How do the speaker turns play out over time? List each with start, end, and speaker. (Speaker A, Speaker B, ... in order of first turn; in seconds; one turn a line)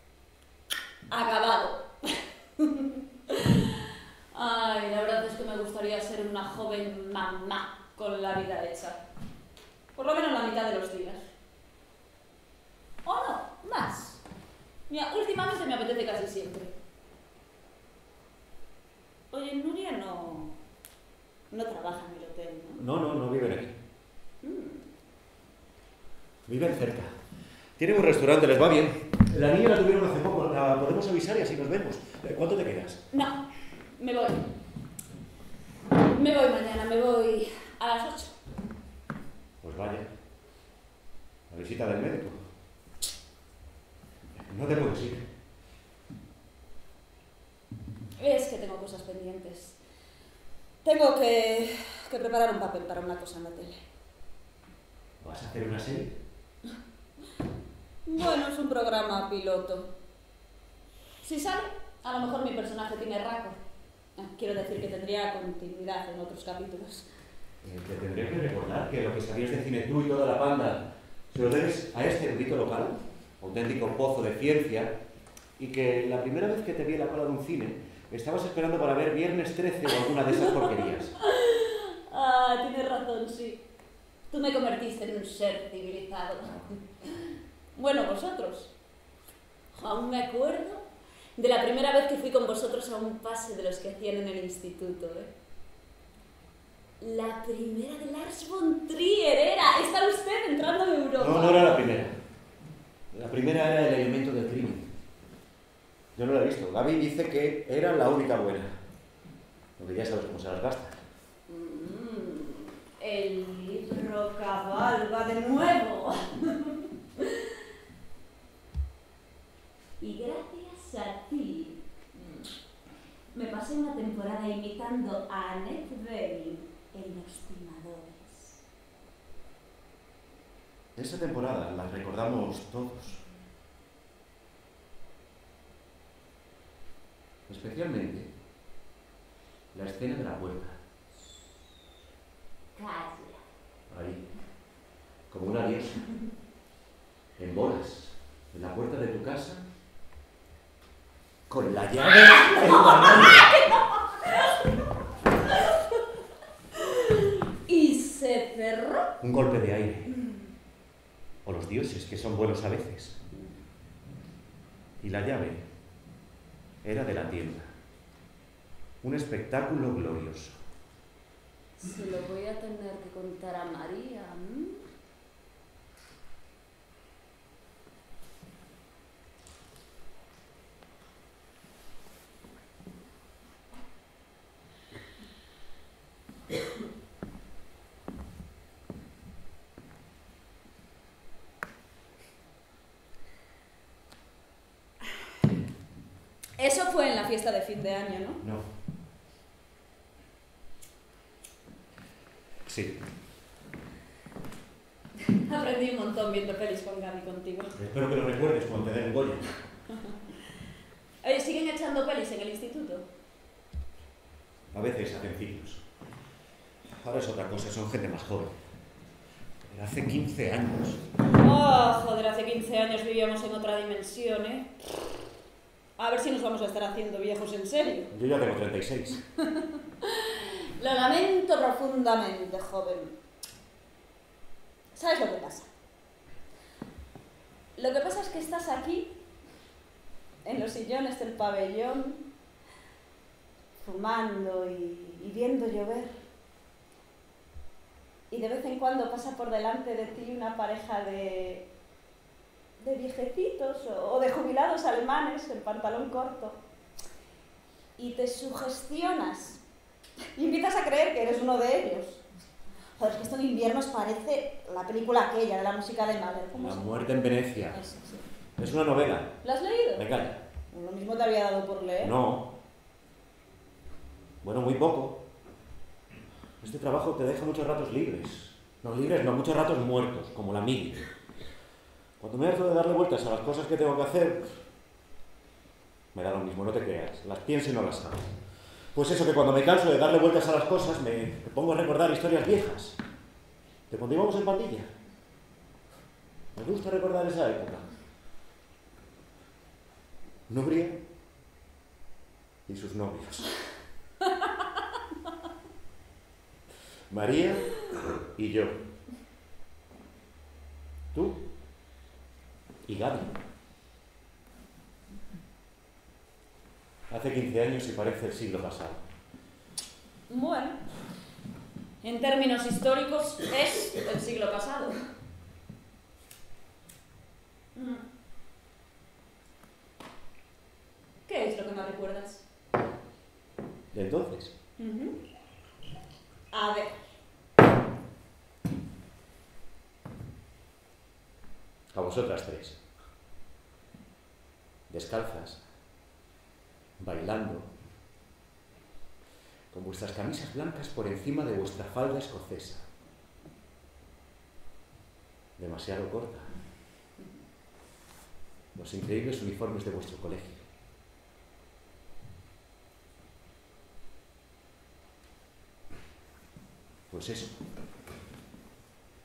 Speaker A: 1.1-3.8
Speaker A: 4.3-9.0
Speaker A: 9.9-11.3
Speaker A: 13.0-14.2
Speaker A: 14.9-16.7
Speaker A: 19.3-20.6
Speaker A: 21.5-22.8
Speaker B: 22.8-23.8
Speaker A: 24.4-24.9
Speaker B: 26.4-27.1
Speaker B: 27.8-33.0
Speaker A: 33.1-33.4
Speaker A: 34.0-34.4
Speaker A: 35.9-38.3
Speaker B: 39.6-40.1
Speaker B: 41.5-42.4
Speaker B: 44.3-45.3
Speaker A: 48.1-49.8
Speaker A: 50.8-53.8
Speaker B: 55.2-56.1
Speaker A: 58.0-59.9
Speaker A: 61.2-63.6
Speaker A: 64.2-67.1
Speaker B: 67.6-74.9
Speaker B: 75.6-81.1
Speaker A: 80.3-83.6
Speaker A: 84.3-88.7
Speaker A: 89.7-95.3
Speaker A: 97.0-101.8
Speaker B: 101.2-102.1
Speaker B: 103.1-104.9
Speaker B: 106.1-108.7
Speaker B: 109.8-111.0
Speaker A: 111.5-117.5
Speaker A: 120.0-122.5
Speaker A: 123.3-128.6
Speaker B: 130.9-133.2
Speaker B: 137.5-138.3
Speaker B: 139.7-140.8
Speaker A: 142.8-143.4
Speaker B: 143.9-144.2
Speaker B: 145.3-146.1
Speaker B: 147.3-149.6
Speaker B: 151.5-153.4
Speaker A: 152.0-154.8
Speaker A: 156.8-159.1
Speaker B: 159.2-160.1
Speaker A: 160.1-160.4
Speaker B: 161.4-163.2
Speaker B: 165.0-165.6
Speaker B: 166.8-167.7
Speaker B: 169.0-170.6
Speaker A: 171.8-174.8
Speaker A: 196.6-198.4
Speaker B: 198.4-198.7
Speaker B: 202.7-203.0
Speaker A: 205.3-207.7
Speaker B: 207.8-209.5
Speaker A: 211.2-213.1
Speaker B: 214.7-215.8
Speaker B: 217.0-218.6
Speaker B: 219.7-221.0
Speaker A: 221.3-224.8
Speaker A: 226.0-228.1
Speaker B: 228.1-229.2
Speaker A: 229.6-233.2
Speaker A: 234.9-235.7
Speaker A: 237.8-239.2
Speaker A: 240.4-242.2
Speaker A: 243.8-246.2
Speaker A: 248.3-251.7
Speaker A: 252.8-256.6
Speaker A: 258.0-259.6
Speaker A: 260.4-262.2
Speaker A: 263.0-267.1
Speaker B: 266.5-267.8
Speaker A: 267.7-268.2
Speaker B: 268.6-269.4
Speaker A: 269.4-270.1
Speaker B: 269.9-270.4
Speaker A: 270.7-272.1
Speaker B: 272.0-272.5
Speaker B: 274.4-275.2
Speaker B: 276.6-281.1
Speaker B: 282.2-284.5
Speaker B: 286.1-288.3
Speaker B: 288.9-293.0
Speaker B: 293.9-294.9
Speaker B: 296.5-297.9
Speaker B: 300.5-301.0
Speaker B: 302.7-303.5
Speaker B: 307.1-308.8
Speaker B: 311.1-311.4
Speaker B: 312.9-313.3
Speaker B: 317.1-319.0
Speaker A: 320.3-320.8
Speaker A: 322.0-324.9
Speaker A: 327.7-328.0
Speaker A: 331.2-332.4
Speaker B: 333.9-334.5
Speaker A: 334.8-335.2
Speaker A: 336.5-336.9
Speaker B: 341.9-342.8
Speaker B: 344.9-345.6
Speaker B: 347.0-347.7
Speaker B: 349.7-352.8
Speaker B: 355.6-356.5
Speaker B: 358.7-360.6
Speaker B: 367.1-367.6